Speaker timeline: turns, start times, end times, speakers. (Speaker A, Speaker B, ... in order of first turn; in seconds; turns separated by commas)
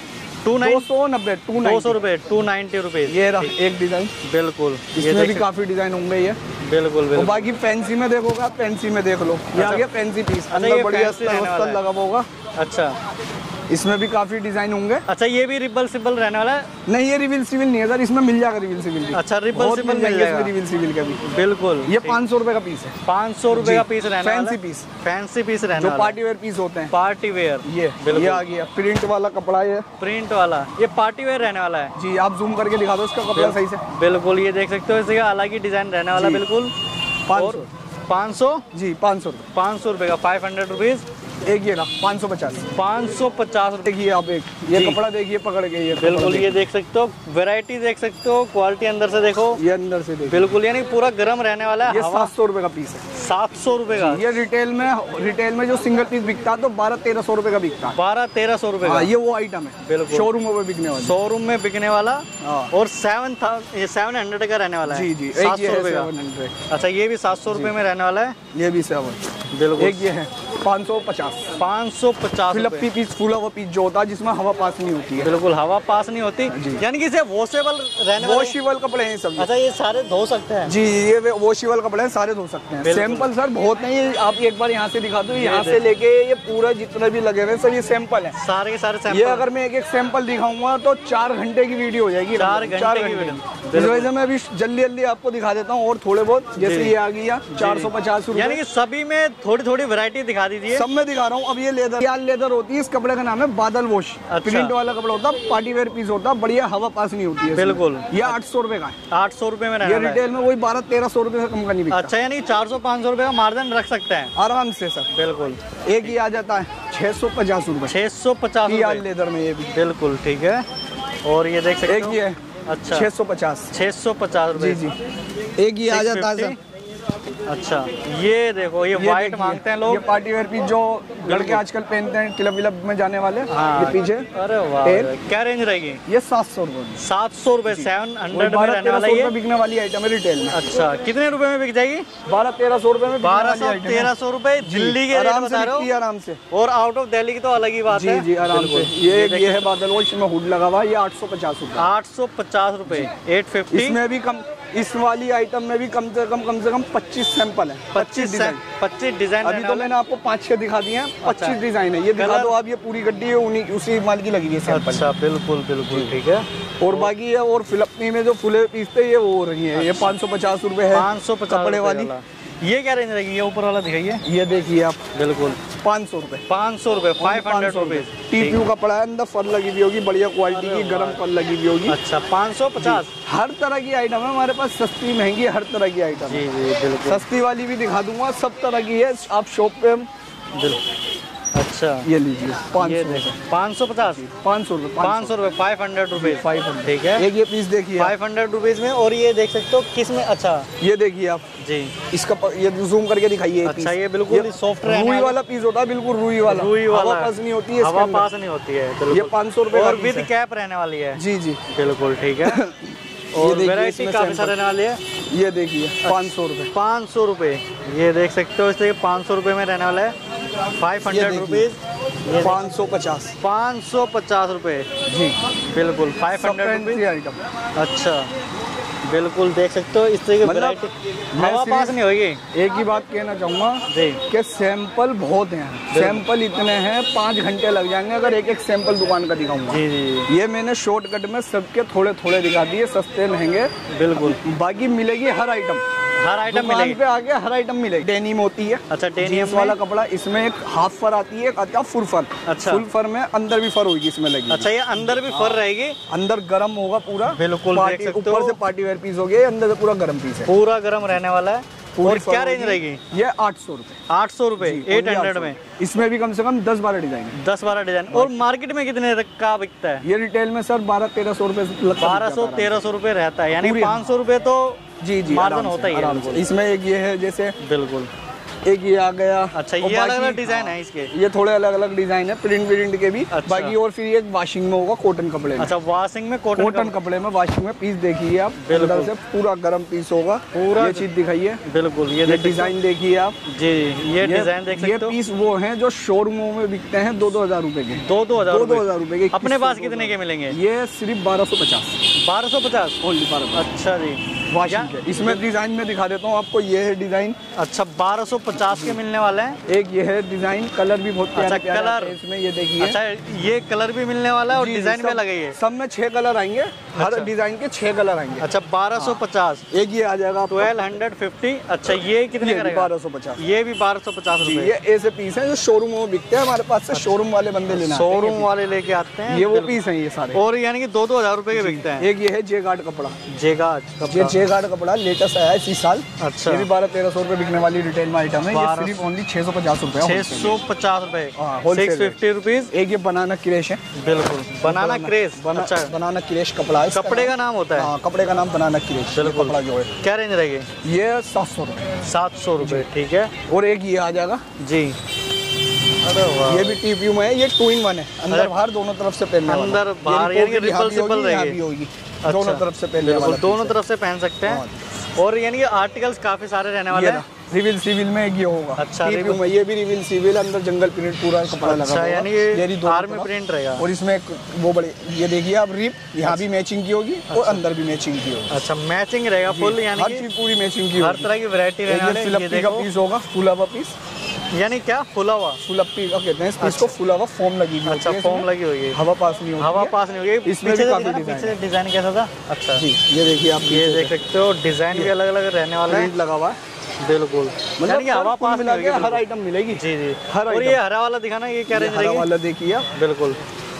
Speaker A: 0.4-0.9, Speaker B: 0.5-2.0, Speaker A: 1.6-3.5, Speaker B: 3.1-4.1, Speaker A: 4.2-5.5, Speaker B: 4.9-6.4, Speaker A: 6.6-7.5, Speaker B: 7.1-12.2, Speaker A: 9.5-9.8, Speaker A: 10.5-11.8, Speaker A: 12.6-13.0, Speaker B: 13.7-15.0, Speaker A: 15.1-16.7, Speaker B: 16.9-21.2, Speaker A: 19.1-20.5, Speaker A: 21.2-22.2, Speaker B: 21.8-22.9, Speaker A: 23.0-26.2, Speaker B: 23.5-24.9, Speaker B: 25.7-26.9, Speaker A: 26.9-28.4, Speaker B: 27.6-29.9, Speaker A: 30.0-31.9, Speaker B: 31.9-33.8, Speaker A: 33.3-36.7, Speaker B: 36.1-36.4, Speaker B: 37.3-37.7, Speaker A: 37.3-38.6, Speaker B: 38.7-39.5, Speaker A: 39.5-41.0, Speaker B: 41.4-42.7, Speaker A: 42.7-44.0, Speaker B: 43.8-46.6, Speaker A: 44.7-45.0, Speaker A: 46.0-49.6, Speaker B: 49.5-50.5, Speaker A: 50.2-52.3, Speaker B: 51.9-53.0, Speaker A: 53.1-54.4, Speaker B: 53.9-58.0, Speaker A: 57.9-59.1, Speaker B: 58.8-61.1, Speaker A: 59.8-60.3, Speaker A: 61.0-66.1, Speaker B: 62.4-62.7, Speaker B: 64.8-66.5, Speaker A: 66.7-68.3, Speaker B: 67.5-67.7, Speaker B: 68.5-69.2, Speaker A: 69.5-70.0, Speaker B: 69.8-71.5, Speaker A: 71.5-72.9, Speaker B: 72.5-75.3, Speaker A: 75.2-78.5, Speaker B: 76.5-76.8, Speaker B: 78.1-79.5, Speaker A: 79.4-80.7, Speaker B: 80.7-88.3, Speaker A: 82.8-83.3, Speaker A: 85.3-85.8, Speaker A: 88.3-89.5, Speaker B: 89.1-98.6, Speaker A: 92.3-94.1, Speaker A: 96.6-97.0, Speaker A: 97.5-100.8, Speaker B: 100.7-109.0, Speaker A: 104.3-104.7, Speaker A: 107.5-108.4, Speaker A: 109.1-110.2, Speaker B: 109.8-112.1, Speaker A: 111.9-114.3, Speaker B: 114.3-115.1, Speaker A: 115.1-116.2, Speaker B: 115.8-117.9, Speaker A: 117.8-119.0, Speaker B: 118.6-119.7, Speaker A: 119.7-120.6, Speaker A: 121.2-123.1, Speaker B: 121.8-123.7, Speaker A: 123.7-124.9, Speaker B: 124.5-124.9, Speaker B: 125.6-126.6, Speaker A: 125.8-126.6, Speaker A: 127.5-130.0, Speaker B: 128.9-134.3, Speaker A: 131.2-131.6, Speaker A: 133.5-136.0, Speaker B: 134.8-135.1, Speaker B: 136.1-137.0, Speaker A: 137.0-139.3, Speaker B: 137.7-140.6, Speaker A: 140.5-142.1, Speaker B: 142.2-146.4, Speaker A: 143.2-145.9, Speaker A: 146.5-149.7, Speaker B: 147.9-151.9, Speaker A: 151.8-154.0, Speaker B: 152.9-153.1, Speaker B: 153.7-158.6, Speaker A: 157.9-159.9, Speaker B: 159.4-165.1, Speaker A: 161.2-161.6, Speaker A: 162.1-162.6, Speaker A: 164.7-167.1, Speaker B: 165.8-166.1, Speaker B: 166.8-172.1, Speaker A: 169.7-170.1, Speaker A: 170.9-174.2, Speaker B: 174.2-175.0, Speaker A: 175.1-175.6, Speaker B: 175.8-176.4, Speaker A: 176.5-178.6, Speaker B: 177.2-182.0, Speaker A: 180.5-181.2, Speaker A: 181.9-183.1, Speaker B: 182.8-186.4, Speaker A: 186.2-187.2, Speaker B: 187.0-190.1, Speaker A: 190.5-190.8, Speaker A: 191.5-192.1, Speaker B: 192.0-193.4, Speaker A: 192.8-194.2, Speaker B: 194.0-195.4, Speaker A: 195.0-197.3, Speaker B: 196.2-198.1, Speaker A: 197.9-200.7, Speaker B: 200.8-201.4, Speaker A: 201.6-201.9, Speaker B: 202.1-208.3, Speaker A: 203.6-205.4, Speaker A: 206.4-212.6, Speaker B: 209.1-210.3, Speaker B: 211.2-211.6, Speaker B: 212.4-214.6, Speaker A: 213.3-215.0, Speaker B: 215.3-216.7, Speaker A: 216.0-220.1, Speaker A: 220.7-222.7, Speaker B: 221.0-221.7, Speaker B: 222.4-223.3, Speaker A: 223.4-224.9, Speaker B: 225.1-225.3, Speaker A: 225.7-227.0, Speaker B: 226.3-227.4, Speaker A: 227.8-228.3, Speaker A: 229.0-232.4, Speaker B: 230.4-230.8, Speaker B: 231.3-232.0, Speaker B: 232.5-245.8, Speaker A: 233.9-234.2, Speaker A: 235.9-236.2, Speaker A: 239.7-240.3, Speaker A: 243.9-244.4, Speaker A: 246.2-247.0, Speaker B: 246.5-260.5, Speaker A: 248.9-249.8, Speaker A: 252.4-252.8, Speaker A: 254.5-256.0, Speaker A: 257.3-258.6, Speaker A: 260.5-263.0, Speaker B: 261.9-264.0, Speaker A: 264.1-265.6, Speaker B: 264.6-267.3, Speaker A: 267.3-270.0, Speaker B: 268.1-268.4, Speaker B: 270.0-272.9, Speaker A: 272.0-276.5, Speaker B: 273.5-274.0, Speaker B: 275.0-277.5, Speaker A: 277.6-278.1, Speaker B: 278.6-285.7, Speaker A: 279.5-281.1, Speaker A: 283.3-283.8, Speaker A: 285.6-286.9, Speaker B: 286.5-291.6, Speaker A: 288.6-289.1, Speaker A: 290.5-291.1, Speaker A: 291.6-292.7, Speaker B: 292.2-293.4, Speaker A: 293.4-295.1, Speaker B: 294.2-301.9, Speaker A: 298.0-300.6, Speaker A: 302.1-303.0, Speaker B: 303.0-303.7, Speaker A: 303.5-305.4, Speaker B: 304.5-307.4, Speaker A: 307.5-309.6, Speaker B: 308.7-309.0, Speaker B: 309.7-313.0, Speaker A: 311.3-312.2, Speaker A: 312.8-315.6, Speaker B: 314.5-320.9, Speaker A: 316.9-317.3, Speaker A: 318.4-319.6, Speaker A: 320.5-324.7, Speaker B: 321.9-323.4, Speaker B: 324.4-328.5, Speaker A: 326.9-332.1, Speaker B: 329.3-330.4, Speaker B: 331.5-333.2, Speaker A: 333.3-334.3, Speaker B: 334.1-340.6, Speaker A: 336.2-336.7, Speaker A: 338.5-339.0, Speaker A: 340.0-342.7, Speaker B: 341.4-342.2, Speaker B: 342.7-343.8, Speaker A: 343.9-345.9, Speaker B: 344.6-349.9, Speaker A: 346.9-347.9, Speaker A: 349.1-350.7, Speaker B: 350.8-351.9, Speaker A: 352.0-353.3, Speaker B: 352.6-352.9, Speaker B: 353.5-354.4, Speaker A: 354.6-355.0, Speaker A: 356.0-356.8, Speaker B: 356.5-363.8, Speaker A: 359.5-361.6, Speaker A: 362.2-364.6, Speaker B: 364.4-364.8, Speaker A: 365.2-367.2, Speaker B: 366.9-378.5, Speaker A: 368.8-369.4, Speaker A: 371.6-373.8, Speaker A: 377.3-377.6, Speaker A: 378.5-380.2, Speaker B: 379.5-381.3, Speaker A: 381.0-382.9, Speaker B: 381.9-383.9, Speaker A: 384.5-385.6, Speaker B: 385.6-391.6, Speaker A: 386.6-386.9, Speaker A: 387.9-389.0, Speaker A: 389.6-392.9, Speaker B: 392.8-394.1, Speaker A: 393.6-396.1, Speaker B: 395.9-396.6, Speaker A: 397.0-399.2, Speaker B: 397.8-400.8, Speaker A: 399.8-402.3, Speaker B: 401.7-402.9, Speaker A: 402.9-403.4